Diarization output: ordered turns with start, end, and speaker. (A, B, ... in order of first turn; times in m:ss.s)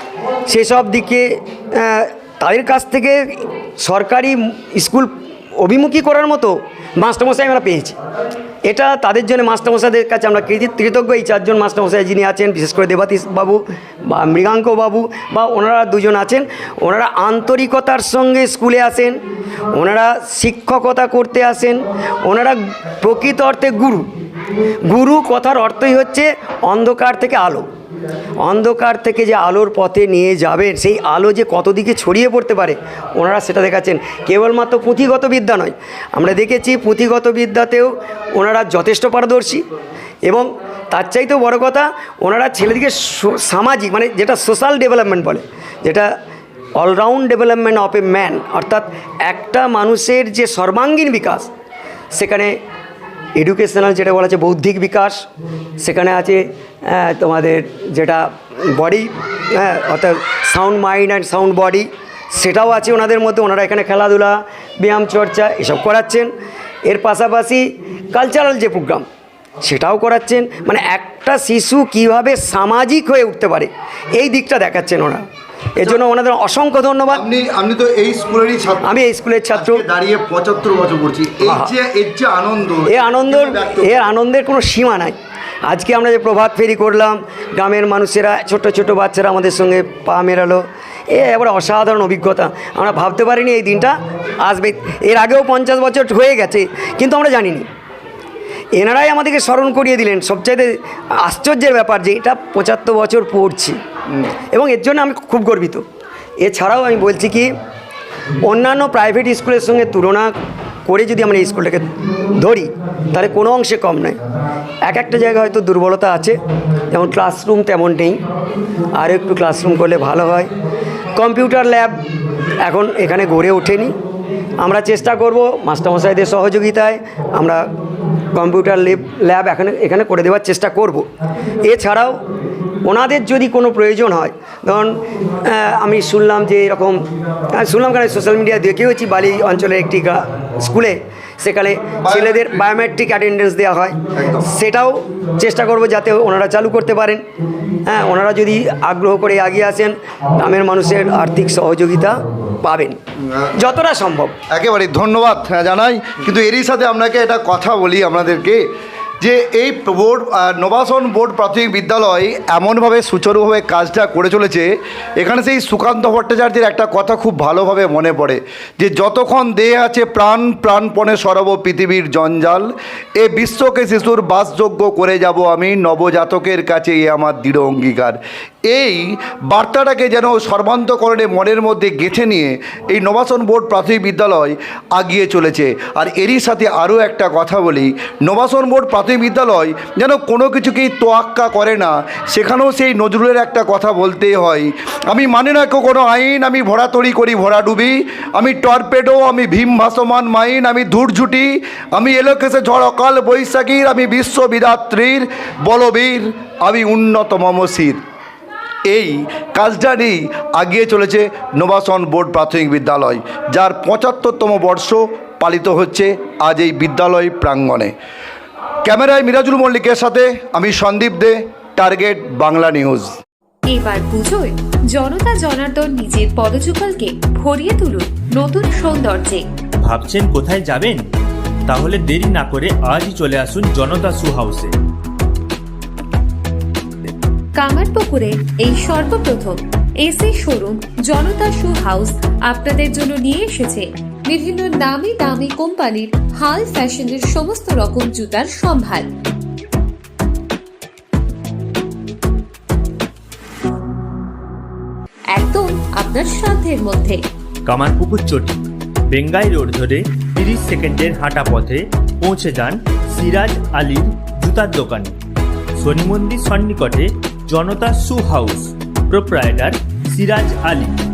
0:00.5-0:08.0 A
0:08.6-0:19.2 A
0:19.7-0:24.1 A
0:24.8-0:27.7 A
0:28.4-0:39.6 A
0:40.2-0:46.1 A
0:46.8-0:51.5 A
0:52.1-0:52.6 A
0:53.4-0:55.3 A
0:55.8-1:06.3 A
1:06.8-1:09.0 A
1:09.6-1:17.2 A
1:17.1-1:19.0 B
1:18.8-1:19.8 A
1:19.5-1:24.1 B
1:21.4-1:21.7 A
1:22.9-1:37.7 A
1:38.7-1:43.8 A
1:44.5-1:45.8 A
1:46.4-1:47.5 A
1:48.4-1:50.3 A
1:50.9-1:54.2 A
1:54.8-1:56.4 A
1:56.9-1:58.2 A
1:59.0-2:00.5 A
2:01.2-2:02.0 A
2:02.6-2:04.0 A
2:04.6-2:07.6 A
2:08.3-2:11.1 A
2:11.6-2:12.2 A
2:12.8-2:17.0 A
2:17.6-2:27.2 A
2:22.0-2:22.8 B
2:24.2-2:24.4 B
2:27.9-2:33.0 A
2:33.3-2:33.7 B
2:33.6-2:34.4 A
2:34.5-2:38.6 B
2:39.2-3:28.0 B
3:28.9-3:37.9 B
3:38.8-3:43.1 B
3:43.7-3:49.4 C
3:49.8-3:51.1 D
3:51.7-3:54.8 D
3:57.6-4:09.1 C
4:15.3-4:17.2 C
4:17.6-4:25.2 D
4:25.8-4:31.0 D